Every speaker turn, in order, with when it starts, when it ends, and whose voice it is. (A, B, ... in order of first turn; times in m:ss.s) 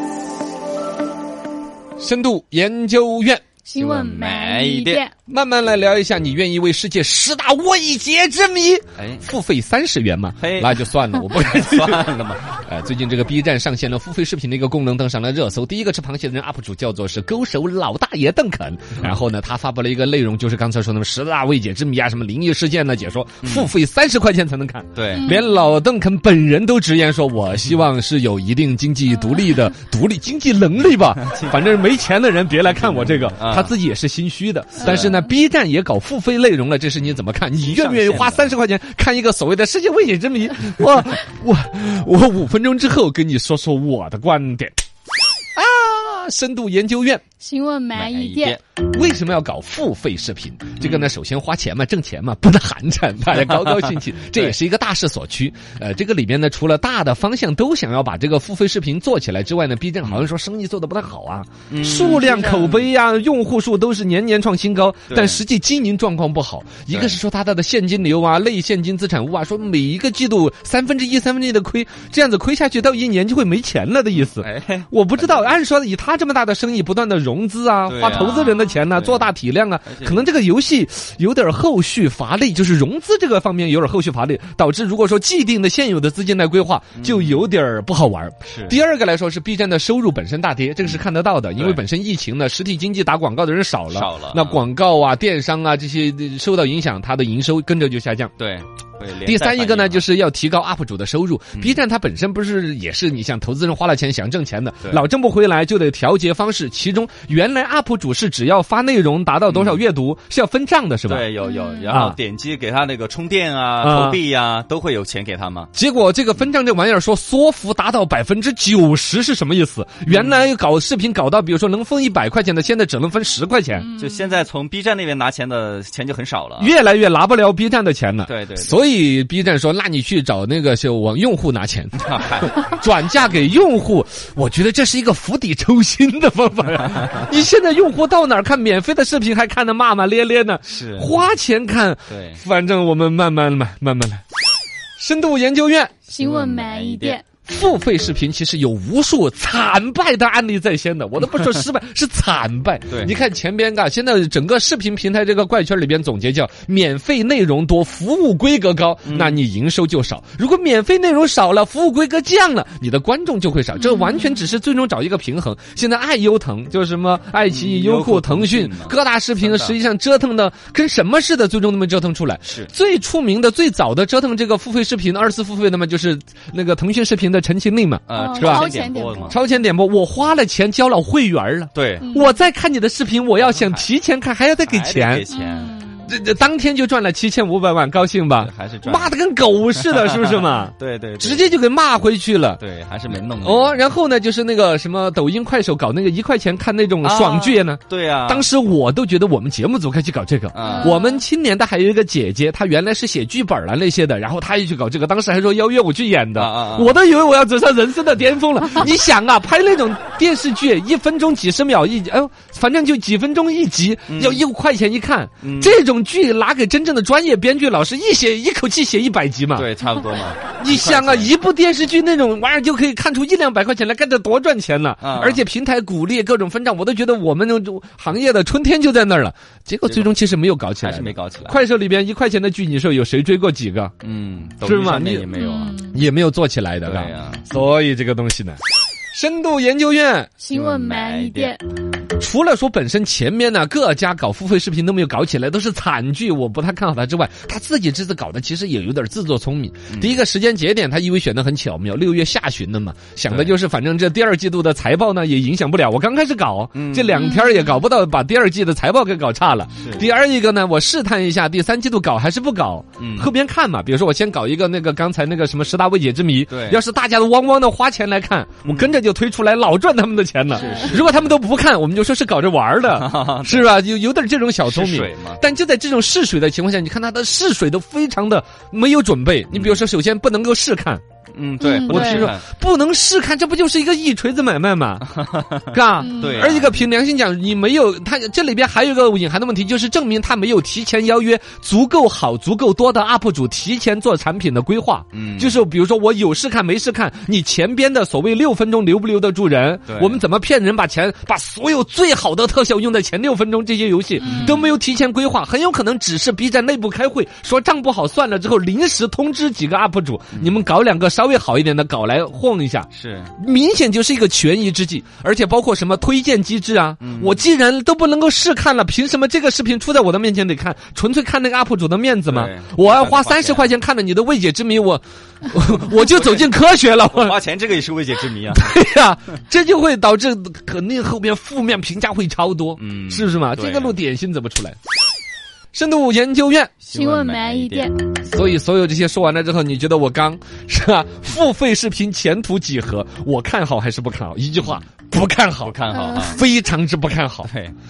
0:02.0-0:03.4 A
0:03.7-0:05.1 B
0:03.8-0:05.0 C
0:05.3-0:44.8 A
0:09.0-0:09.3 C
0:10.4-0:12.6 C
0:23.4-0:23.7 C
0:25.0-0:25.4 C
0:25.1-0:25.5 B
0:31.2-0:31.6 C
0:32.9-0:33.8 C
0:34.8-0:35.2 C
0:37.0-0:38.6 C
0:45.6-0:47.2 A
0:47.4-0:48.6 B
0:47.9-0:48.6 C
0:48.9-1:38.3 A
0:50.8-0:51.1 C
0:53.3-0:54.6 C
1:01.7-1:02.9 C
1:05.1-1:05.4 C
1:06.9-1:07.2 C
1:14.1-1:15.6 C
1:17.9-1:19.3 C
1:18.1-1:18.6 B
1:19.8-1:20.3 C
1:27.0-1:27.5 C
1:28.5-1:28.8 C
1:30.8-1:31.8 C
1:33.9-1:34.6 C
1:38.4-1:40.1 C
1:39.2-1:51.3 A
1:41.6-1:41.8 C
1:49.5-1:49.8 C
1:51.1-1:55.7 C
1:51.4-1:51.9 B
1:51.9-1:52.2 A
1:53.8-1:54.2 A
1:55.8-2:03.9 A
2:00.1-2:00.5 C
2:03.9-2:04.4 B
2:04.0-2:06.7 C
2:06.6-2:24.2 A
2:08.2-2:08.8 C
2:12.0-2:13.5 C
2:16.8-2:17.3 C
2:20.6-2:21.2 C
2:22.1-2:22.4 C
2:25.0-2:26.0 A
2:26.1-2:27.2 C
2:26.1-2:27.2 B
2:27.4-2:58.7 A
2:32.9-2:33.2 C
2:39.0-2:39.4 C
2:43.8-2:44.4 B
2:47.5-2:49.8 C
2:52.4-2:52.7 C
2:58.1-2:59.4 C
2:58.1-2:59.4 B
2:59.3-3:05.2 A
3:01.7-3:02.1 C
3:02.0-3:02.4 B
3:03.4-3:03.9 C
3:04.7-3:05.8 C
3:05.3-3:06.1 B
3:06.1-3:12.6 A
3:08.4-3:09.2 C
3:09.7-3:11.5 C
3:12.6-3:13.8 C
3:13.3-3:39.7 A
3:17.0-3:18.5 C
3:20.5-3:21.0 C
3:20.7-3:21.2 B
3:26.4-3:27.0 C
3:34.1-3:34.4 C
3:35.4-3:35.8 C
3:39.5-3:41.3 C
3:40.6-3:53.9 A
3:45.0-3:45.4 C
3:49.8-3:50.1 C
3:50.8-3:51.6 C
3:54.0-3:55.8 C
3:54.6-3:55.3 A
3:55.3-3:56.0 B
3:55.9-3:58.6 A
3:56.8-3:57.5 C
3:59.1-4:00.4 A
4:00.4-4:01.6 B
4:00.5-4:01.6 C
4:02.2-4:41.0 A
4:09.9-4:10.2 C
4:13.3-4:13.6 C
4:16.7-4:17.2 C
4:17.1-4:17.8 B
4:19.8-4:20.1 C
4:23.0-4:23.3 C
4:26.5-4:26.8 C
4:28.6-4:28.9 C
4:30.6-4:31.4 C
4:32.9-4:33.7 C
4:34.7-4:35.4 C
4:39.5-4:39.8 C
4:41.3-4:42.5 C
4:41.6-4:42.3 B
4:41.9-4:45.0 A
4:45.0-4:46.9 C
4:45.7-5:27.4 A
4:46.0-4:46.5 B
4:55.1-4:55.6 C
4:59.9-5:00.2 C
5:04.2-5:04.7 C
5:04.3-5:04.6 B
5:10.3-5:10.6 C
5:12.9-5:13.3 C
5:17.0-5:17.4 C
5:22.3-5:23.7 C
5:25.8-5:28.8 C
5:28.5-5:34.8 A
5:32.8-5:34.0 C
5:35.7-5:36.8 A
5:36.8-5:37.9 C
5:36.9-5:38.1 B
5:38.2-5:47.5 A
5:44.6-5:44.9 C
5:45.6-5:46.4 C
5:45.9-5:46.4 B
5:47.4-5:47.8 C